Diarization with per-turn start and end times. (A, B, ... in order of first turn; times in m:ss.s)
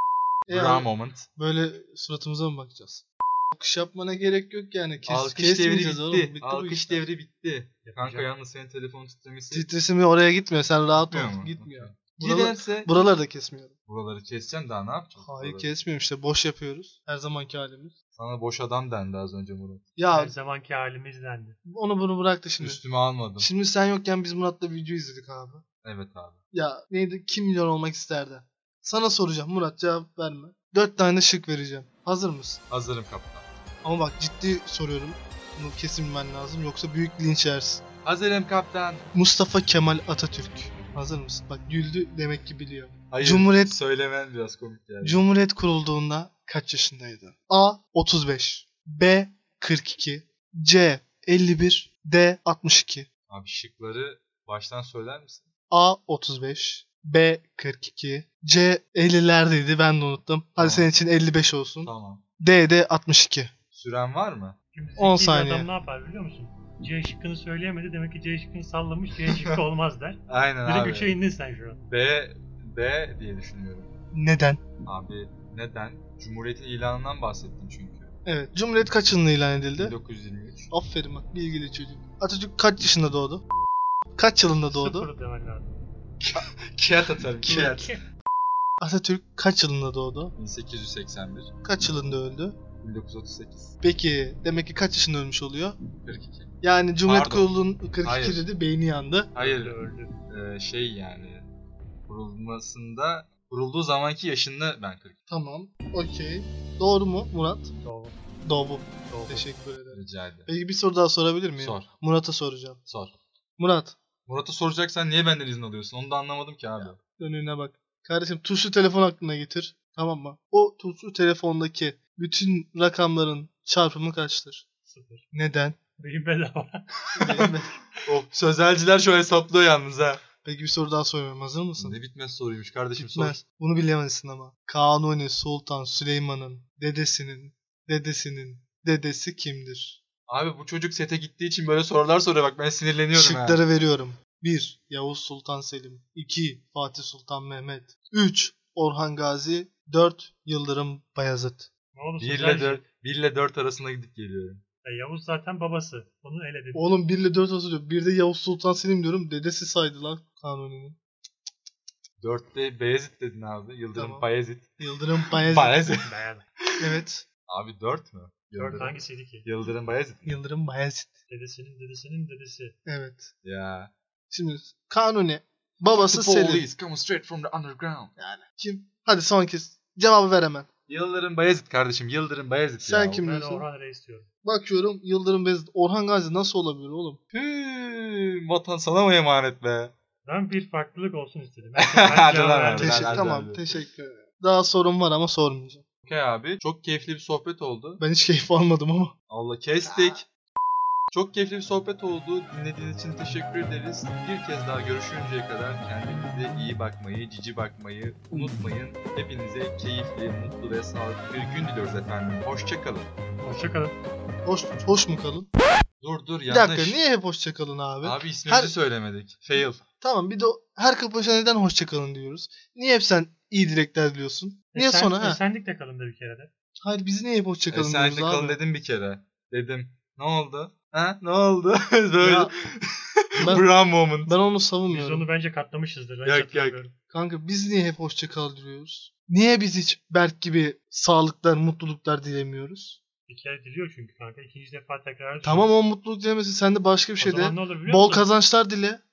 0:00.5-0:07.0 A
0:00.5-0:01.3 B
0:05.0-0:09.7 B
0:07.8-0:08.3 C
0:09.5-0:13.7 A
0:10.9-0:12.9 B
0:13.9-0:15.7 B
0:15.2-0:17.9 A
0:18.1-0:19.9 B
0:20.0-0:20.3 A
0:20.1-0:21.6 C
0:21.6-0:22.8 A
0:22.6-0:23.5 B
0:23.4-0:25.6 A
0:25.8-0:26.4 B
0:26.5-0:32.6 A
0:32.7-0:33.5 B
0:33.8-0:37.8 A
0:38.0-0:39.1 B
0:39.1-0:43.8 A
0:43.1-0:45.2 B
0:45.0-0:53.1 A
0:53.3-0:55.5 B
0:55.7-1:03.5 A
1:00.6-1:00.9 B
1:01.8-1:02.2 B
1:03.7-1:04.6 B
1:04.7-1:11.8 C
1:05.0-1:05.7 A
1:09.3-1:09.6 B
1:10.3-1:11.2 B
1:11.9-1:13.9 B
1:14.1-1:14.6 A
1:14.8-1:18.1 B
1:18.2-1:19.9 A
1:19.8-1:20.7 B
1:20.7-1:23.4 A
1:24.2-1:25.1 A
1:24.7-1:25.8 C
1:26.2-1:28.0 B
1:27.4-1:27.9 A
1:28.8-1:30.3 A
1:30.4-1:31.5 B
1:31.6-1:32.6 A
1:32.8-1:33.8 B
1:33.8-1:35.8 A
1:36.0-1:38.4 B
1:36.6-1:39.3 A
1:39.3-1:39.8 B
1:39.4-1:40.1 C
1:40.3-1:41.5 B
1:42.1-1:45.2 B
1:45.3-1:47.7 A
1:47.8-1:48.2 C
1:48.4-1:52.8 A
1:49.0-1:49.5 C
1:49.9-1:50.5 B
1:51.6-1:51.9 B
1:52.8-1:53.2 B
1:53.6-1:54.0 A
1:54.2-1:57.0 B
1:56.9-2:04.6 A
2:04.8-2:05.2 C
2:05.3-2:05.8 A
2:06.0-2:07.4 C
2:07.2-2:07.7 A
2:08.0-2:10.2 B
2:10.4-2:12.0 A
2:11.8-2:13.4 B
2:13.0-2:20.0 A
2:20.3-2:23.6 B
2:23.1-2:31.7 A
2:31.9-2:32.8 C
2:32.2-2:34.6 B
2:34.8-2:36.8 C
2:36.7-2:41.0 A
2:42.2-2:46.1 B
2:43.9-2:44.3 A
2:44.8-2:45.9 A
2:46.0-2:46.4 C
2:46.7-2:50.4 B
2:46.8-2:47.2 A
2:48.6-2:49.4 C
2:50.2-2:51.1 A
2:51.3-2:52.8 C
2:52.8-2:53.3 A
2:53.4-2:53.9 B
2:54.3-2:56.6 A
2:55.9-2:58.1 B
2:58.2-3:00.7 A
3:00.9-3:03.2 B
3:02.8-3:03.7 A
3:03.2-3:04.3 C
3:04.4-3:07.2 A
3:07.3-3:09.9 B
3:10.2-3:13.2 C
3:11.8-3:13.7 B
3:12.8-3:15.8 A
3:16.0-3:18.0 B
3:18.0-3:19.1 A
3:19.3-3:20.3 B
3:21.1-3:33.1 B
3:33.4-3:34.0 C
3:34.4-3:35.5 A
3:36.0-3:37.0 B
3:36.5-3:38.7 A
3:38.0-3:39.8 B
3:40.0-3:45.4 A
3:44.7-3:46.5 C
3:46.8-3:48.6 A
3:47.7-3:54.3 B
3:52.2-3:52.5 A
3:53.4-3:55.3 A
3:54.9-3:56.9 C
3:56.2-3:56.8 B
3:57.1-4:03.0 A
4:03.3-4:05.7 C
4:05.4-4:09.0 A
4:07.2-4:08.3 C